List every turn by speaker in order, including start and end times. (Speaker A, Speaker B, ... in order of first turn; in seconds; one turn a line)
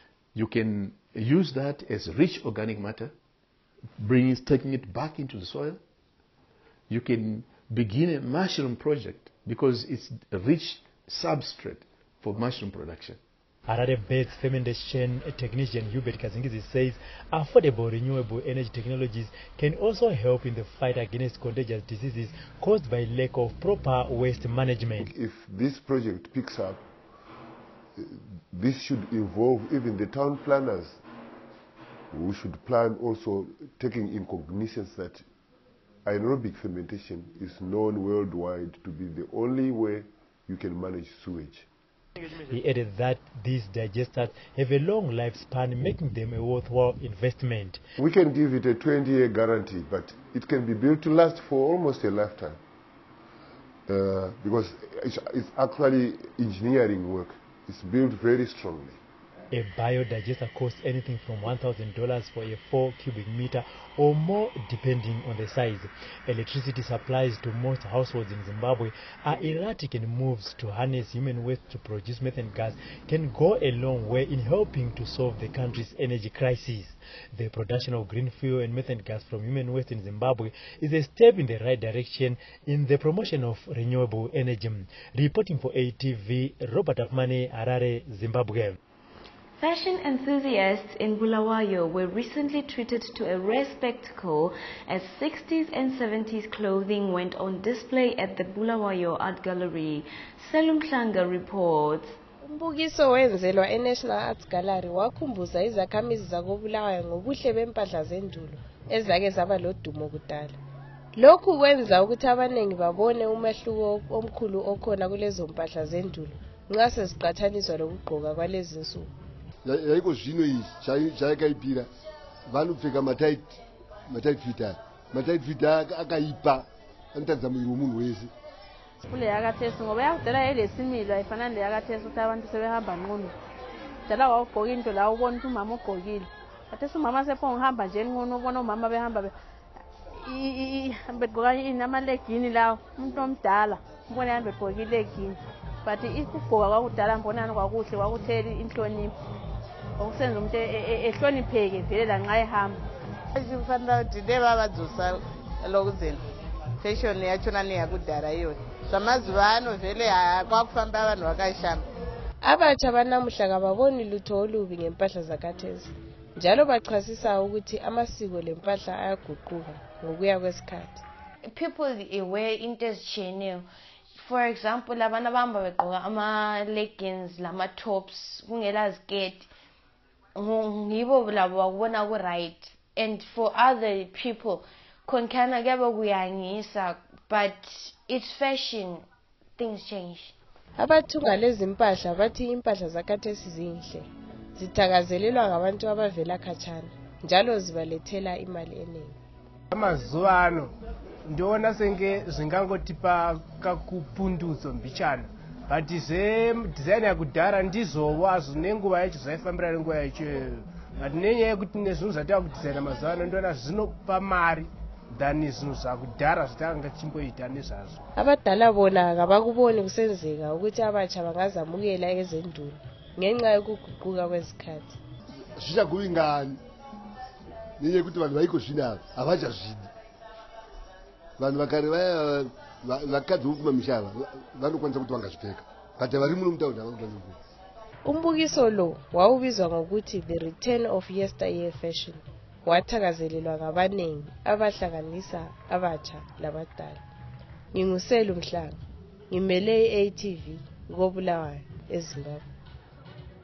Speaker A: 0.3-3.1
Speaker A: 4.0-5.8
Speaker A: 6.9-13.2
Speaker B: 13.7-25.1
Speaker C: 25.0-26.8
Speaker C: 28.0-31.0
Speaker C: 32.1-35.2
Speaker C: 36.0-41.7
Speaker B: 42.5-47.8
Speaker C: 48.0-52.6
Speaker C: 53.9-59.0
Speaker B: 59.5-88.8
Speaker D: 89.6-102.2
Speaker E: 102.5-110.5
Speaker E: 111.2-119.1
Speaker F: 119.7-121.9
Speaker F: 122.5-123.6
Speaker F: 124.1-128.3
Speaker G: 129.1-133.3
Speaker G: 134.1-139.3
Speaker G: 140.2-149.1
Speaker G: 150.0-152.8
Speaker H: 153.4-156.2
Speaker H: 156.8-161.8
Speaker E: 162.4-171.0
Speaker I: 171.4-173.7
Speaker I: 174.2-179.5
Speaker I: 180.4-189.1
Speaker I: 189.6-190.3
Speaker E: 190.8-199.2
Speaker J: 199.7-200.7
Speaker J: 201.2-218.0
Speaker E: 218.2-225.0
Speaker F: 225.6-226.6
Speaker F: 227.8-229.9
Speaker F: 231.4-237.4
Speaker E: 238.1-247.0
Speaker E: 247.7-248.8
Speaker E: 249.3-252.4